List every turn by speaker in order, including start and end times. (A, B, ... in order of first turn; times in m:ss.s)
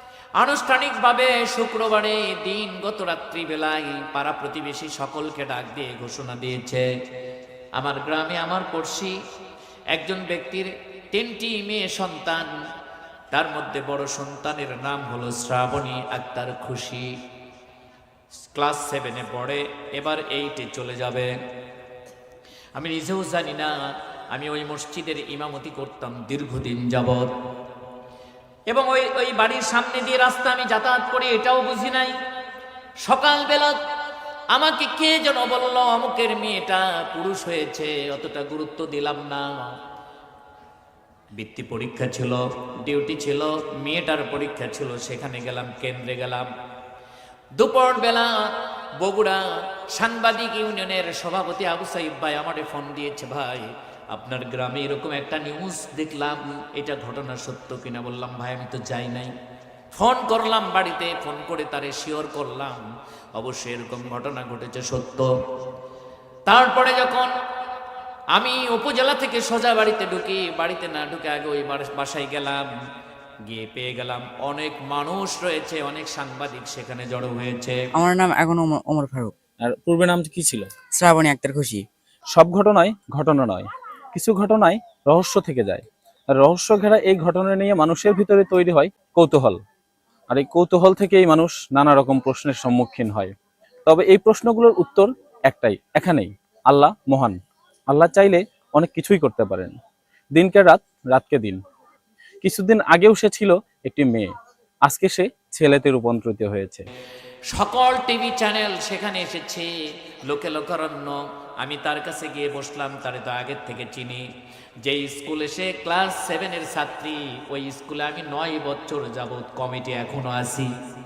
0:00.4-0:06.9 A
0:07.8-0:09.1 A
0:09.9-0:12.5 A
0:13.3-0:17.1 A
0:18.4-0:21.3 A
0:22.8-0:23.7 A
0:24.3-0:27.3 A
0:28.7-0:32.2 A
0:33.0-0:33.8 A
0:34.5-0:39.6 A
0:41.4-0:46.5 A
0:47.6-0:48.3 A
0:49.0-0:49.4 A
0:49.9-0:59.3 A
0:59.9-1:02.8 A
1:03.4-1:05.3 A
1:06.5-1:07.3 A
1:08.3-1:12.7 A
1:13.5-1:17.8 A
1:18.0-1:19.3 B
1:19.6-1:20.7 C
1:20.9-1:21.8 B
1:22.3-1:29.6 C
1:30.3-1:33.3 C
1:33.9-1:37.4 C
1:37.9-1:39.8 C
1:40.4-1:41.6 C
1:42.4-1:44.3 C
1:44.8-1:46.9 C
1:47.5-1:49.7 A
1:50.3-1:54.2 A
1:54.8-2:00.7 A